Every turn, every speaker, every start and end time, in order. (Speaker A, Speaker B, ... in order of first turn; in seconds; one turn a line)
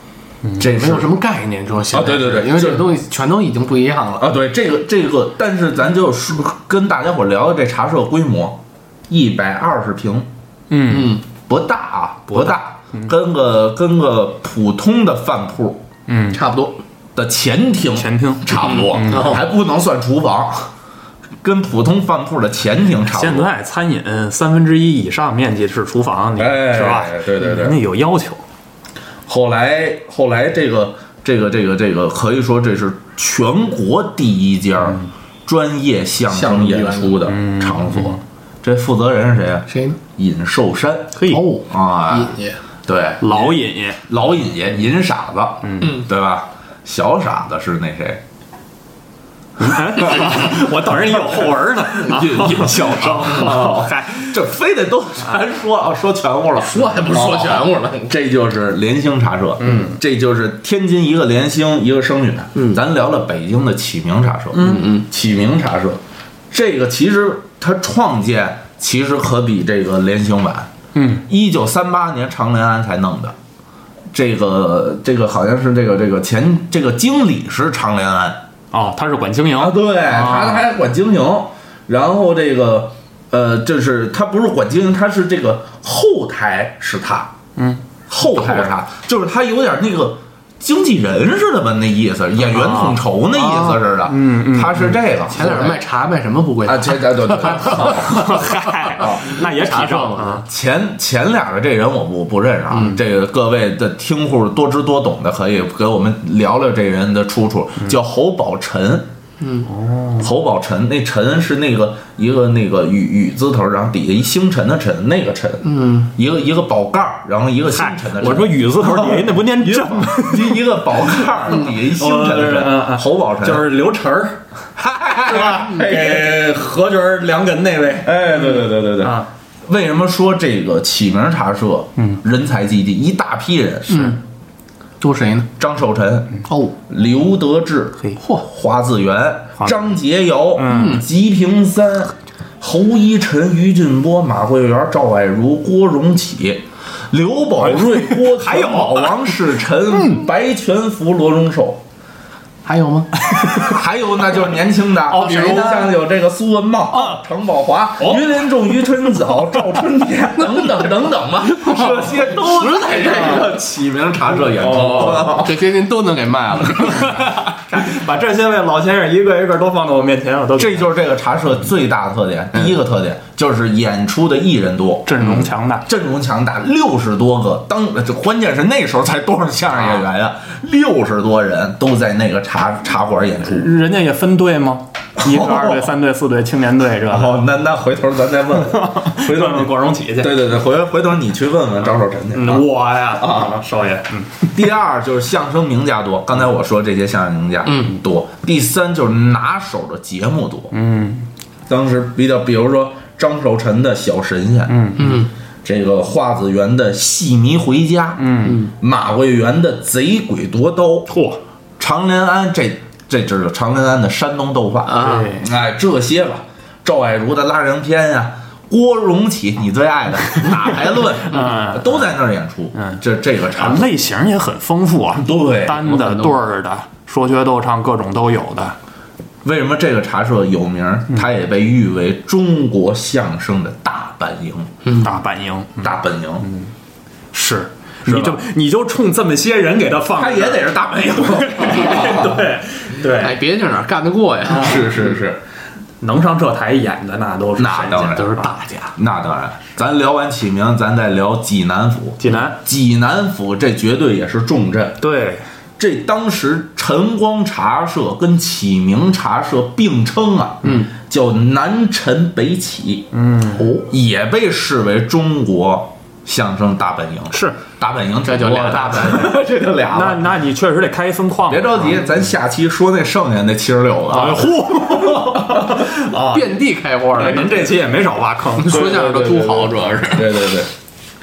Speaker A: 0.6-1.1
Speaker B: 0.6-4.3
Speaker A: 1.9-2.9
Speaker A: 4.2-10.3
Speaker C: 10.7-11.2
Speaker B: 10.9-11.2
Speaker A: 11.5-15.8
Speaker C: 12.3-13.1
Speaker C: 16.1-16.4
Speaker B: 16.3-16.8
Speaker A: 17.1-20.7
Speaker C: 17.9-19.4
Speaker B: 19.1-19.4
Speaker A: 21.4-23.5
Speaker C: 23.0-28.4
Speaker A: 26.4-27.8
Speaker A: 29.3-48.2
Speaker B: 36.3-37.2
Speaker C: 37.3-38.2
Speaker B: 39.7-40.0
Speaker C: 41.2-41.4
Speaker B: 41.2-42.6
Speaker C: 43.2-44.0
Speaker C: 45.6-45.9
Speaker C: 49.6-54.4
Speaker A: 51.9-70.7
Speaker B: 56.6-58.1
Speaker C: 59.6-60.0
Speaker B: 64.6-65.0
Speaker C: 70.9-71.2
Speaker A: 71.3-73.3
Speaker A: 74.1-78.4
Speaker C: 78.7-80.7
Speaker A: 79.5-87.3
Speaker C: 87.6-88.7
Speaker A: 88.1-95.8
Speaker C: 92.5-93.0
Speaker B: 93.3-93.8
Speaker C: 94.0-94.9
Speaker B: 95.3-97.9
Speaker A: 96.6-98.4
Speaker C: 97.7-100.4
Speaker A: 98.9-99.4
Speaker B: 99.3-100.4
Speaker A: 100.4-109.1
Speaker B: 109.4-109.7
Speaker C: 109.7-110.3
Speaker A: 110.2-123.7
Speaker B: 115.6-116.1
Speaker C: 117.7-120.6
Speaker C: 121.2-124.4
Speaker A: 124.8-126.4
Speaker C: 125.1-129.3
Speaker A: 128.0-134.1
Speaker B: 133.9-134.2
Speaker B: 135.0-135.5
Speaker A: 135.6-136.3
Speaker B: 136.5-136.7
Speaker A: 136.9-151.8
Speaker C: 140.6-141.0
Speaker B: 140.7-141.0
Speaker C: 147.6-149.6
Speaker B: 152.6-153.3
Speaker C: 153.3-153.6
Speaker A: 153.5-165.6
Speaker C: 155.1-155.9
Speaker B: 155.1-155.8
Speaker C: 158.0-158.2
Speaker B: 161.5-163.4
Speaker B: 164.6-167.2
Speaker C: 167.0-170.9
Speaker A: 170.6-183.7
Speaker C: 175.1-175.8
Speaker C: 183.5-187.4
Speaker A: 185.2-185.9
Speaker A: 187.1-193.6
Speaker C: 188.7-190.4
Speaker C: 192.3-194.5
Speaker A: 194.5-200.7
Speaker B: 197.7-197.9
Speaker C: 200.7-201.3
Speaker A: 201.7-204.9
Speaker C: 204.7-205.2
Speaker B: 205.0-205.3
Speaker A: 205.6-211.1
Speaker C: 208.2-208.6
Speaker C: 211.1-211.4
Speaker A: 211.8-223.9
Speaker B: 214.9-215.4
Speaker C: 215.0-215.4
Speaker C: 221.3-222.1
Speaker C: 222.7-223.0
Speaker C: 223.5-228.8
Speaker A: 225.1-225.9
Speaker B: 225.9-226.3
Speaker A: 229.4-234.7
Speaker C: 235.0-236.7
Speaker A: 235.8-236.4
Speaker C: 237.3-240.7
Speaker A: 238.1-238.4
Speaker A: 240.1-242.4
Speaker C: 241.2-243.3
Speaker B: 243.2-244.8
Speaker A: 244.5-245.4
Speaker C: 246.0-248.5
Speaker A: 247.6-248.3
Speaker B: 248.1-248.9
Speaker A: 248.9-255.1
Speaker C: 252.2-252.6
Speaker C: 255.0-255.4
Speaker A: 255.8-263.1
Speaker B: 260.6-260.9
Speaker C: 263.1-263.6
Speaker B: 263.6-263.8
Speaker A: 263.9-270.3
Speaker C: 267.3-267.6
Speaker B: 268.2-269.3
Speaker C: 269.9-272.0
Speaker A: 271.5-274.5
Speaker C: 274.1-276.5
Speaker A: 275.3-275.6
Speaker B: 276.3-277.7
Speaker C: 277.1-278.9
Speaker B: 278.6-280.3
Speaker A: 278.7-280.7